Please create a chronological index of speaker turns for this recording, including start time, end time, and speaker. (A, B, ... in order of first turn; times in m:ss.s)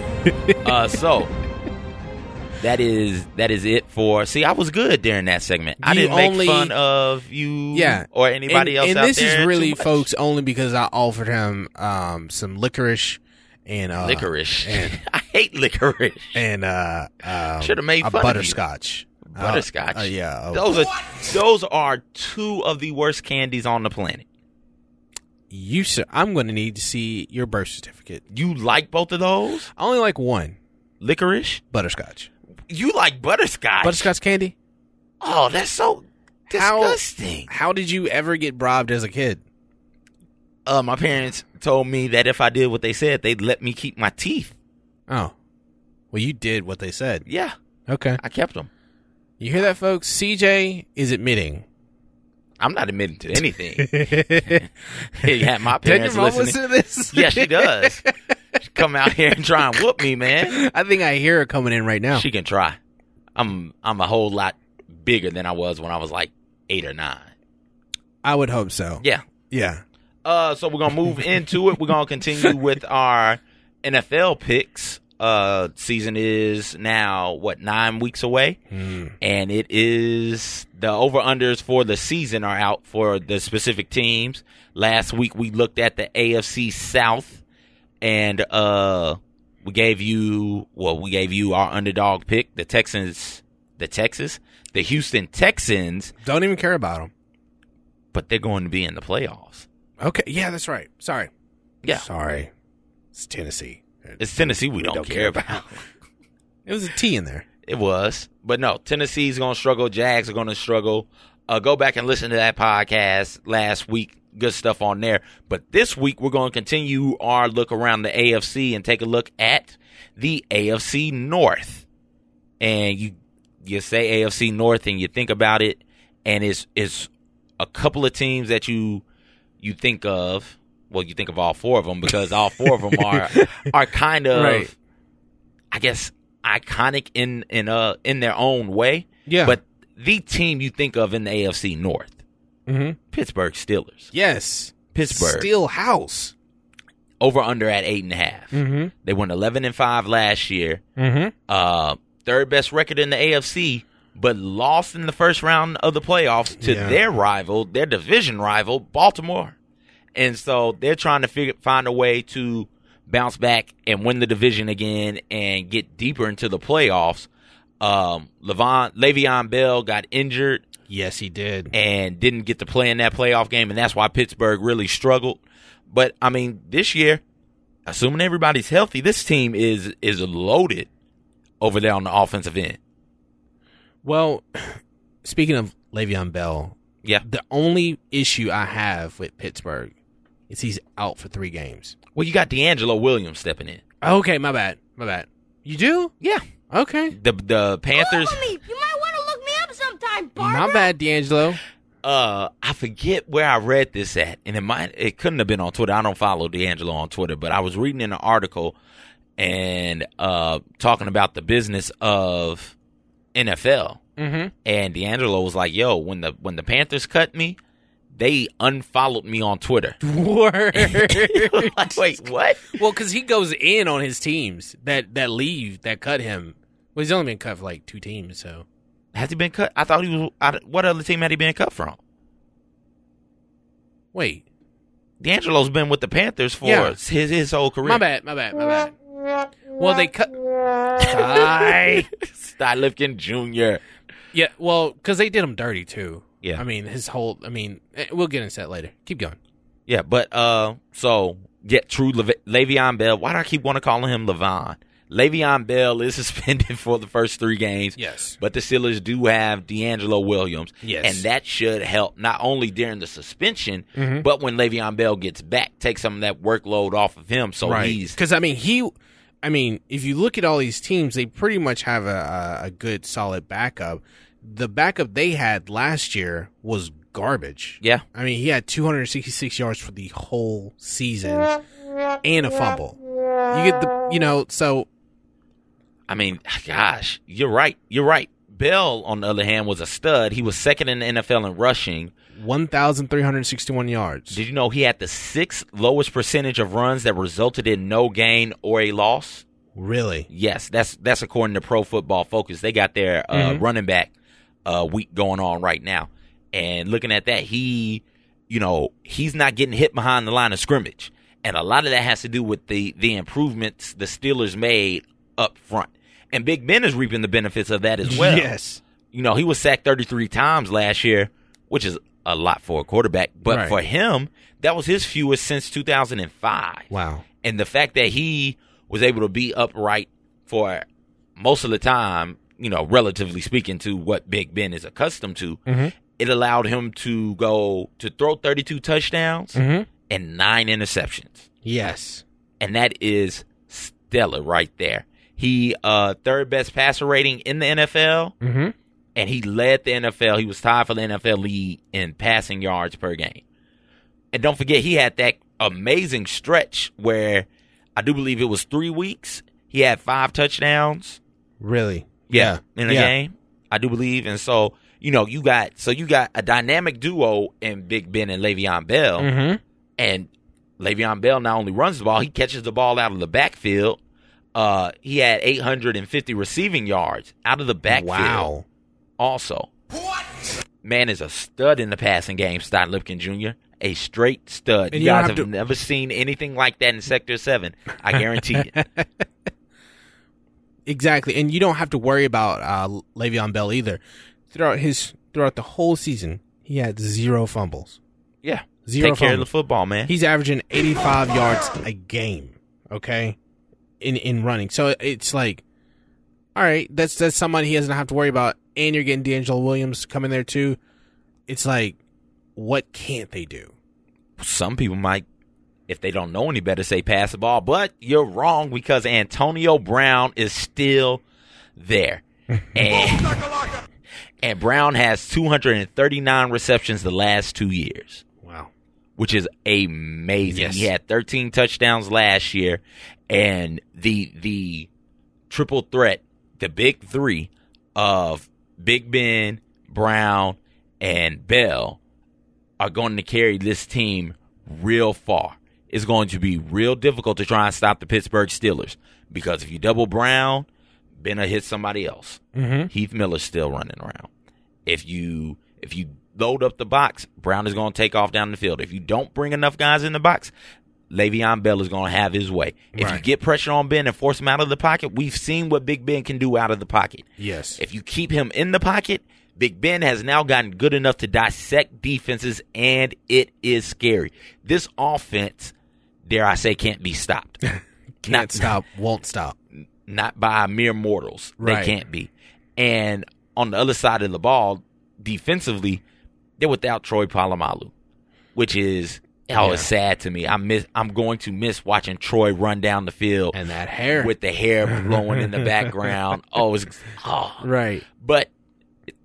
0:00.2-0:00.6 A
0:00.6-0:01.3 B
0:02.6-0:10.1 B
0:05.8-0:06.7 A
0:07.7-0:15.0 A
0:14.0-0:16.4 B
0:16.3-0:20.7 A
0:17.6-0:18.6 B
0:19.3-0:24.2 B
0:25.5-0:28.2 A
0:28.3-0:29.7 B
0:29.8-0:30.6 A
0:31.0-0:31.6 B
0:31.7-0:32.3 A
0:32.7-0:34.1 B
0:33.8-0:34.6 A
0:35.2-0:37.5 B
0:36.5-0:39.4 A
0:40.7-0:44.5 B
0:45.1-0:45.3 A
0:46.1-0:47.3 A
0:47.3-0:47.6 B
0:47.9-0:48.2 A
0:48.2-0:48.7 B
0:49.4-0:51.6 A
0:52.6-0:54.7 B
0:53.8-0:58.1 A
0:55.2-0:58.0 B
0:58.6-1:00.6 B
1:00.4-1:02.3 A
1:02.1-1:02.8 B
1:03.4-1:07.3 B
1:08.2-1:09.8 A
1:10.2-1:18.6 B
1:18.7-1:19.2 A
1:19.2-1:27.4 B
1:28.0-1:36.1 B
1:36.2-1:37.1 A
1:38.1-1:39.7 B
1:40.0-1:41.3 A
1:41.9-1:42.5 A
1:43.1-1:45.8 A
1:44.2-1:45.9 B
1:46.7-1:47.4 A
1:47.7-2:01.8 B
2:02.6-2:09.0 B
2:09.6-2:14.7 B
2:12.7-2:13.7 A
2:14.3-2:14.7 A
2:15.7-2:22.2 B
2:19.3-2:19.6 A
2:22.7-2:23.0 A
2:23.1-2:24.1 B
2:24.1-2:26.3 A
2:24.9-2:25.5 B
2:27.2-2:30.8 B
2:28.5-2:28.9 A
2:31.0-2:31.3 A
2:31.5-2:39.6 B
2:36.6-2:37.0 A
2:40.2-2:47.3 B
2:47.8-2:50.6 B
2:50.9-2:51.8 A
2:51.7-2:57.2 B
2:57.9-3:00.9 B
3:01.6-3:02.8 B
3:04.0-3:09.9 A
3:10.5-3:12.0 A
3:12.2-3:13.8 B
3:14.0-3:16.1 A
3:16.2-3:16.5 B
3:16.7-3:17.2 A
3:17.1-3:18.4 B
3:17.9-3:20.9 C
3:20.4-3:21.6 A
3:22.0-3:28.8 B
3:29.4-3:32.8 B
3:33.3-3:34.0 B
3:34.2-3:34.5 A
3:34.6-3:37.6 B
3:38.1-3:40.0 B
3:40.0-3:42.0 A
3:40.8-3:42.8 B
3:42.7-3:48.6 A
3:49.1-3:52.0 B
3:54.1-3:54.4 A
3:55.2-3:58.0 B
3:56.6-3:57.0 A
3:57.8-3:59.0 A
3:59.8-4:02.1 A
4:01.1-4:03.8 B
4:04.3-4:09.4 A
4:09.9-4:28.2 B
4:18.0-4:18.4 A
4:20.8-4:21.2 A
4:24.0-4:24.2 A
4:27.6-4:41.6 A
4:42.2-4:43.0 A
4:43.5-4:44.9 A
4:46.1-4:52.1 B
4:52.4-4:54.4 A
4:54.3-4:59.4 B
4:59.8-5:00.3 A
5:00.3-5:04.1 B
5:03.3-5:03.6 A
5:04.6-5:18.5 B
5:18.0-5:18.8 A
5:19.1-5:26.9 B
5:23.5-5:23.8 A
5:26.9-5:27.2 A
5:27.4-5:30.9 B
5:31.4-5:35.6 B
5:35.7-5:35.9 A
5:36.2-5:39.6 B
5:39.6-5:39.9 A
5:40.1-5:41.5 B
5:41.6-5:42.2 A
5:42.6-5:48.4 B
5:48.4-5:48.7 A
5:49.2-5:53.4 B
5:54.3-6:01.2 B
6:01.6-6:03.1 A
6:02.3-6:09.3 B
6:09.2-6:09.6 A
6:10.0-6:14.0 B
6:14.6-6:18.5 B
6:17.9-6:18.6 A
6:19.2-6:19.7 B
6:20.8-6:28.7 B
6:24.9-6:25.5 A
6:28.5-6:29.1 A
6:30.9-6:38.0 A
6:38.4-6:40.1 B
6:38.9-6:39.5 A
6:40.1-6:43.4 A
6:44.0-6:45.6 A
6:46.6-6:50.8 A
6:51.5-6:52.0 A
6:52.6-6:53.7 A
6:54.4-6:55.2 B
6:55.9-7:01.2 B
7:01.8-7:03.5 B
7:04.4-7:08.2 B
7:08.4-7:08.7 A
7:09.2-7:14.9 B
7:10.5-7:10.9 A
7:15.5-7:22.0 B
7:22.8-7:30.7 B
7:31.2-7:34.3 B
7:32.6-7:32.9 A
7:34.9-7:40.5 B
7:41.1-7:47.3 B
7:42.9-7:43.2 A
7:47.4-7:47.8 A
7:47.8-7:55.7 B
7:56.3-7:57.6 B
7:57.6-7:59.6 A
7:58.2-7:58.7 B
7:59.8-8:06.0 B
8:01.6-8:02.0 A
8:06.6-8:07.9 B
8:08.6-8:13.6 B
8:09.6-8:09.9 A
8:13.5-8:14.3 A
8:14.1-8:18.5 B
8:14.9-8:15.9 A
8:17.6-8:18.0 A